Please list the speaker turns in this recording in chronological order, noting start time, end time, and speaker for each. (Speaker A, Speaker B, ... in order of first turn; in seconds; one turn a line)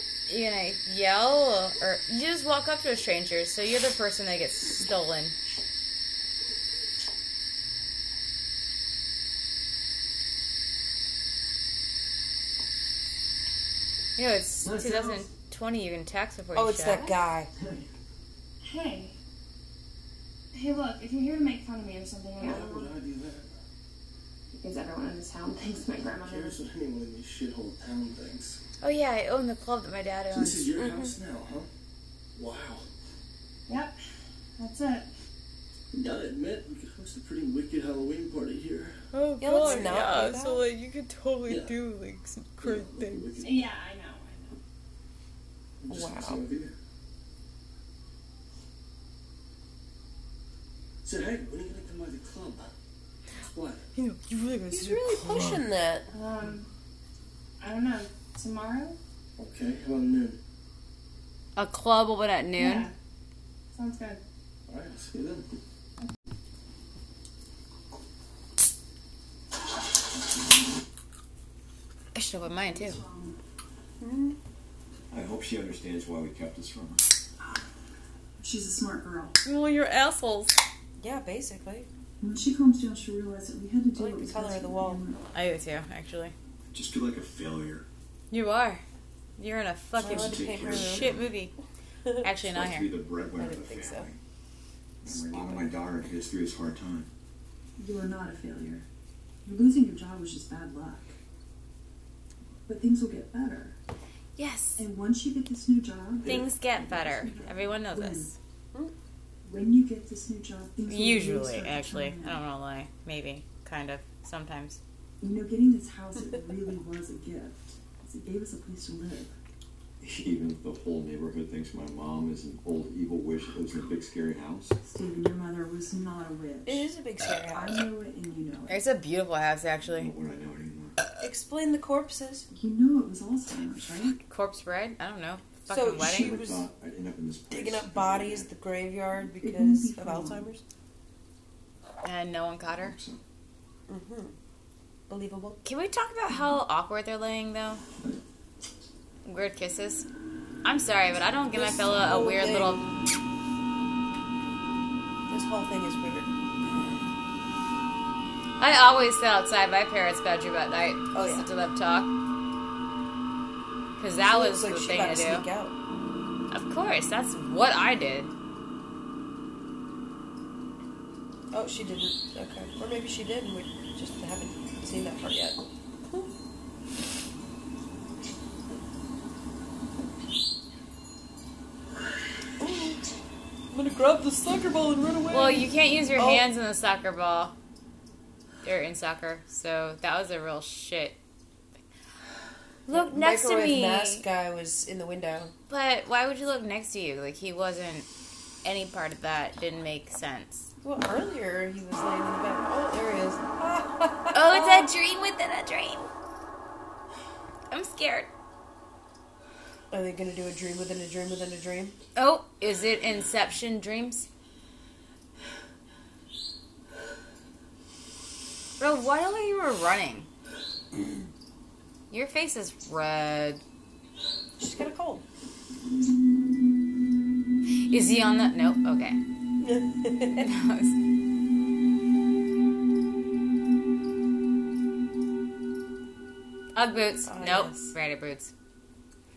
Speaker A: 0.3-5.3
Speaker A: 14.2-17.1
Speaker B: 14.6-15.3
Speaker C: 16.5-17.5
Speaker B: 17.6-17.9
Speaker D: 18.6-19.1
Speaker D: 20.5-22.9
Speaker B: 22.4-23.6
Speaker D: 24.5-26.6
Speaker B: 26.1-28.6
Speaker A: 28.8-30.7
Speaker B: 30.3-31.7
Speaker C: 30.8-31.1
Speaker B: 32.3-32.9
Speaker D: 33.7-34.0
Speaker D: 34.6-35.1
Speaker B: 35.9-39.0
Speaker A: 39.1-43.3
Speaker C: 39.4-40.6
Speaker B: 41.5-41.8
Speaker B: 42.6-43.7
Speaker D: 43.4-44.6
Speaker B: 45.8-46.7
Speaker C: 45.9-46.4
Speaker B: 51.0-52.7
Speaker B: 53.4-53.8
Speaker A: 54.0-55.6
Speaker C: 54.7-56.1
Speaker D: 56.1-56.7
Speaker D: 57.6-59.0
Speaker B: 59.4-60.4
Speaker A: 61.5-62.9
Speaker D: 62.6-62.9
Speaker D: 63.7-64.2
Speaker B: 64.7-65.5
Speaker A: 72.1-73.0
Speaker E: 72.6-73.4
Speaker C: 74.0-74.4
Speaker F: 75.1-77.0
Speaker E: 78.4-79.4
Speaker A: 79.4-80.5
Speaker C: 81.0-81.9
Speaker E: 82.2-85.2
Speaker C: 84.0-85.0
Speaker A: 85.3-86.3
Speaker F: 86.7-87.8
Speaker A: 88.3-88.8
Speaker A: 89.4-91.5
Speaker F: 90.0-91.3
Speaker C: 90.0-91.1
Speaker A: 92.2-92.9
Speaker F: 92.4-94.2
Speaker C: 93.3-94.1
Speaker F: 95.0-97.1
Speaker C: 95.0-95.7
Speaker E: 97.8-98.8
Speaker E: 99.4-101.2
Speaker E: 102.7-103.8
Speaker A: 104.4-104.8
Speaker E: 104.8-108.3
Speaker F: 106.2-107.4
Speaker A: 106.2-108.3
Speaker E: 109.4-112.4
Speaker A: 110.9-114.8
Speaker E: 115.2-119.3
Speaker F: 120.0-124.8
Speaker E: 124.8-126.9
Speaker C: 126.7-127.8
Speaker E: 127.4-128.8
Speaker A: 128.7-130.1
Speaker F: 129.9-131.0
Speaker C: 131.2-132.5
Speaker E: 132.5-134.2
Speaker A: 134.2-136.4
Speaker C: 135.7-136.7
Speaker F: 135.8-138.5
Speaker C: 137.5-140.6
Speaker E: 139.3-140.5
Speaker A: 142.0-143.0
Speaker F: 142.8-143.2
Speaker C: 143.9-144.3
Speaker C: 145.1-145.6
Speaker A: 145.6-147.8
Speaker A: 149.2-150.1
Speaker A: 150.6-152.8
Speaker C: 151.5-152.9
Speaker C: 155.3-156.3
Speaker A: 158.6-162.1
Speaker C: 161.1-161.5
Speaker A: 164.0-165.5
Speaker C: 164.2-165.8
Speaker A: 166.5-168.3
Speaker C: 171.5-176.3
Speaker C: 182.6-183.1
Speaker C: 183.7-186.5
Speaker A: 185.3-187.5
Speaker A: 188.6-191.2
Speaker A: 192.9-194.2
Speaker C: 192.9-195.5
Speaker A: 195.7-198.1
Speaker A: 198.6-200.7
Speaker C: 200.8-204.9
Speaker A: 204.3-206.1
Speaker A: 207.7-208.3
Speaker C: 209.9-211.9
Speaker A: 212.2-214.3
Speaker A: 218.8-220.3
Speaker A: 222.1-223.6
Speaker C: 224.6-225.2
Speaker A: 227.8-229.2
Speaker C: 229.6-230.5
Speaker A: 230.4-230.9
Speaker A: 236.7-238.5
Speaker C: 237.2-237.9